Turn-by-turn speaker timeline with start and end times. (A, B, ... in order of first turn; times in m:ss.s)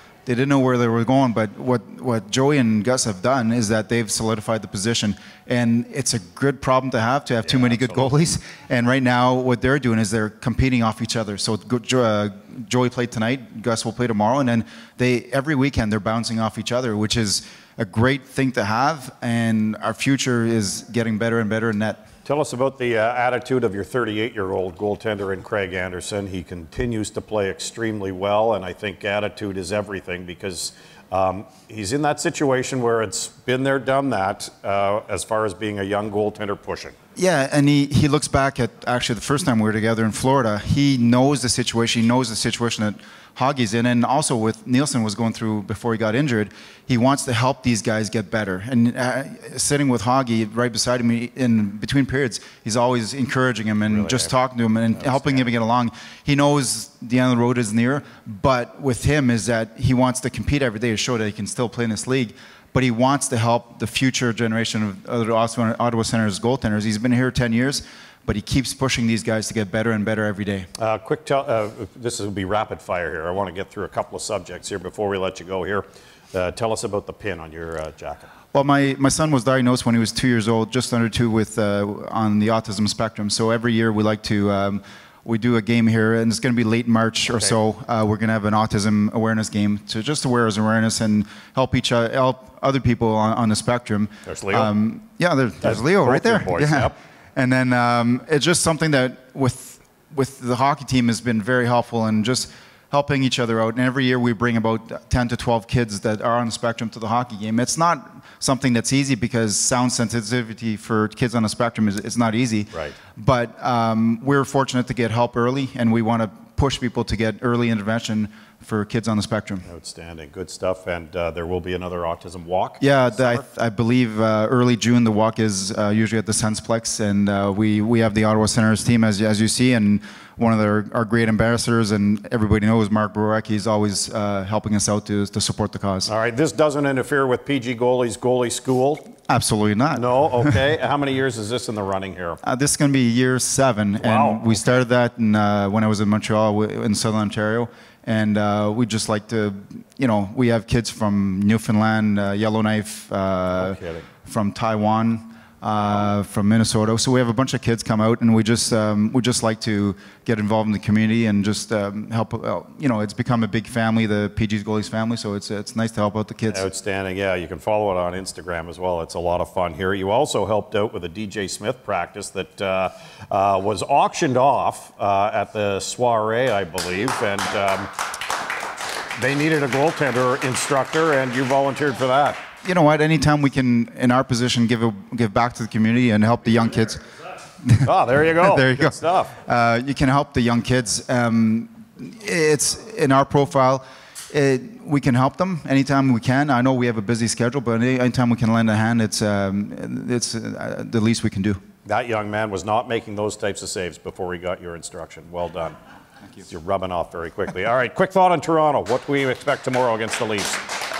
0:00.3-0:22.0 A
0:07.5-0:08.1 B
0:22.2-0:36.9 B
0:37.2-1:10.7 A
0:53.9-0:54.3 B
0:55.0-0:55.5 B
1:10.8-1:18.3 B
1:18.5-1:59.7 A
1:34.3-1:34.7 B
1:35.6-1:36.9 B
1:52.7-1:53.0 B
1:59.7-2:03.4 B
2:02.8-2:16.1 A
2:16.1-2:19.1 B
2:19.3-2:20.5 A
2:19.9-2:22.4 B
2:22.4-2:46.7 A
2:24.0-2:24.6 B
2:33.6-2:34.1 B
2:46.5-2:57.9 B
2:59.2-3:02.4 B
3:02.6-3:07.1 A
3:07.6-3:21.6 A
3:07.8-3:09.3 B
3:21.8-3:25.8 B
3:26.5-3:30.6 B